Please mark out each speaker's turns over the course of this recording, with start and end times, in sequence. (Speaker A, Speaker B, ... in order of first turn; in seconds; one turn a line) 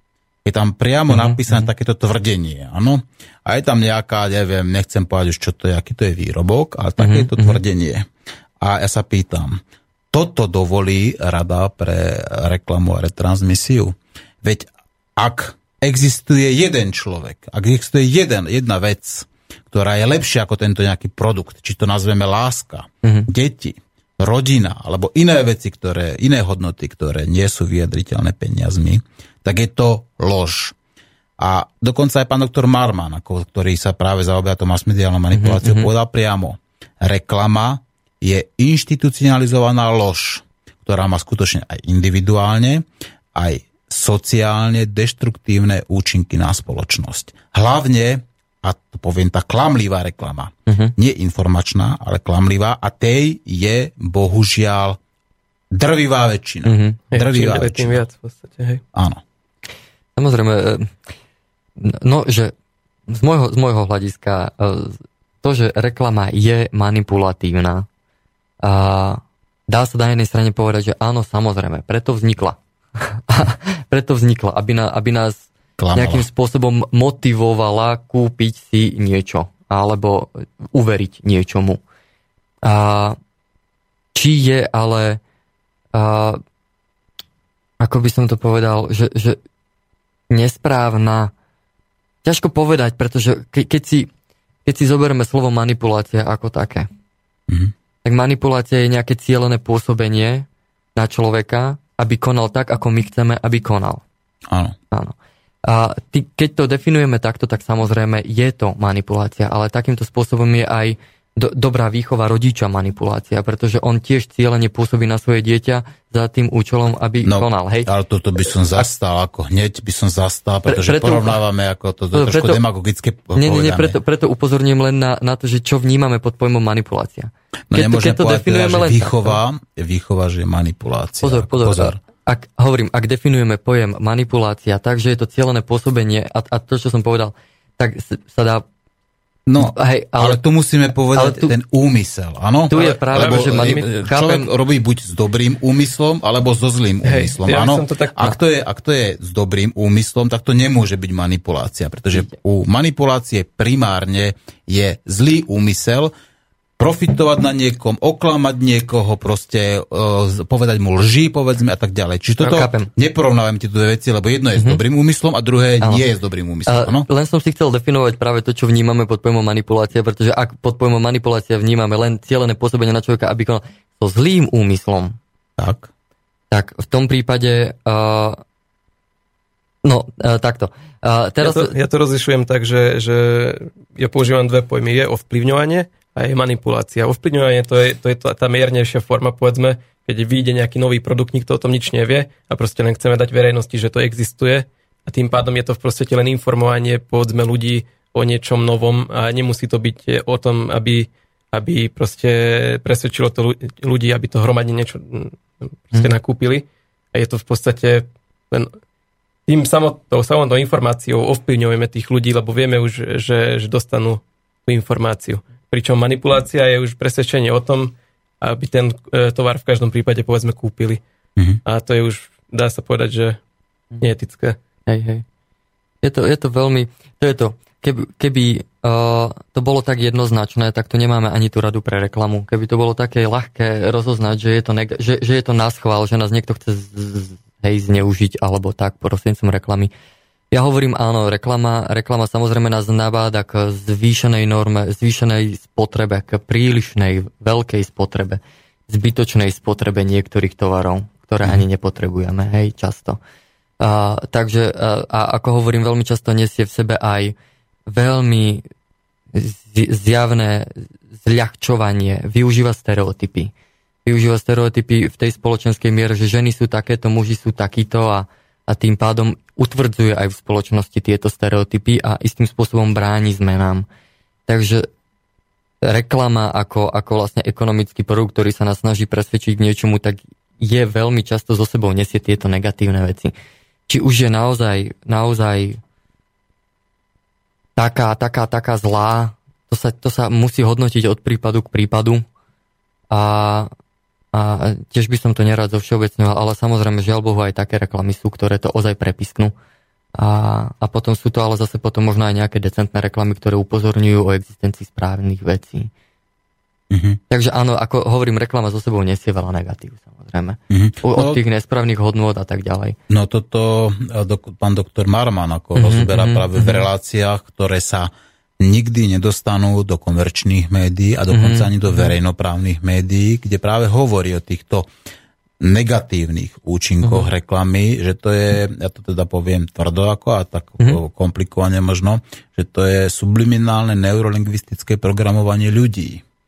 Speaker A: 0.4-8.1
Speaker B: 1.1-1.7
Speaker B: 7.0-7.6
Speaker A: 8.6-9.6
Speaker A: 10.1-30.7
Speaker B: 23.0-23.3
Speaker A: 31.4-55.0
Speaker B: 35.3-35.9
Speaker B: 50.7-50.9
Speaker A: 55.7-58.0
Speaker B: 56.6-57.0
Speaker C: 57.1-58.8
Speaker A: 58.9-59.2
Speaker B: 60.1-60.9
Speaker B: 61.8-62.5
Speaker B: 63.1-67.9
Speaker B: 68.6-81.8
Speaker A: 75.8-76.3
Speaker B: 82.6-83.2
Speaker B: 84.1-85.2
Speaker B: 85.9-86.4
Speaker B: 87.8-89.4
Speaker B: 90.3-91.3
Speaker B: 92.2-94.1
Speaker B: 94.6-96.9
Speaker B: 98.0-104.0
Speaker A: 104.5-104.8
Speaker B: 104.9-117.9
Speaker A: 117.2-124.0
Speaker B: 120.7-121.4
Speaker B: 122.1-122.6
Speaker B: 123.3-129.4
Speaker A: 127.7-132.0
Speaker B: 131.2-138.6
Speaker A: 139.5-156.1
Speaker B: 139.6-140.4
Speaker B: 141.1-141.5
Speaker B: 142.7-144.5
Speaker C: 142.7-143.8
Speaker C: 147.0-148.3
Speaker A: 156.8-167.1
Speaker B: 162.4-162.9
Speaker B: 164.5-164.8
Speaker B: 166.7-175.2
Speaker A: 175.6-175.9
Speaker B: 176.5-178.4
Speaker B: 179.8-181.7
Speaker C: 181.4-208.7
Speaker C: 209.5-221.0
Speaker C: 221.7-223.4
Speaker C: 224.0-224.6
Speaker B: 224.8-225.2
Speaker B: 226.0-239.9
Speaker B: 240.5-253.2
Speaker B: 253.8-257.3
Speaker B: 257.9-258.6
Speaker B: 259.3-263.5
Speaker B: 264.0-273.9
Speaker B: 274.5-274.9
Speaker B: 275.8-283.3
Speaker B: 283.9-285.8
Speaker B: 287.8-292.2
Speaker B: 293.1-293.7
Speaker B: 294.3-299.5
Speaker B: 300.2-305.9
Speaker A: 306.9-307.2
Speaker B: 307.3-313.0
Speaker A: 310.7-311.4
Speaker A: 313.1-324.9
Speaker B: 315.7-316.9
Speaker B: 321.3-322.1
Speaker A: 325.6-336.2
Speaker B: 327.0-327.3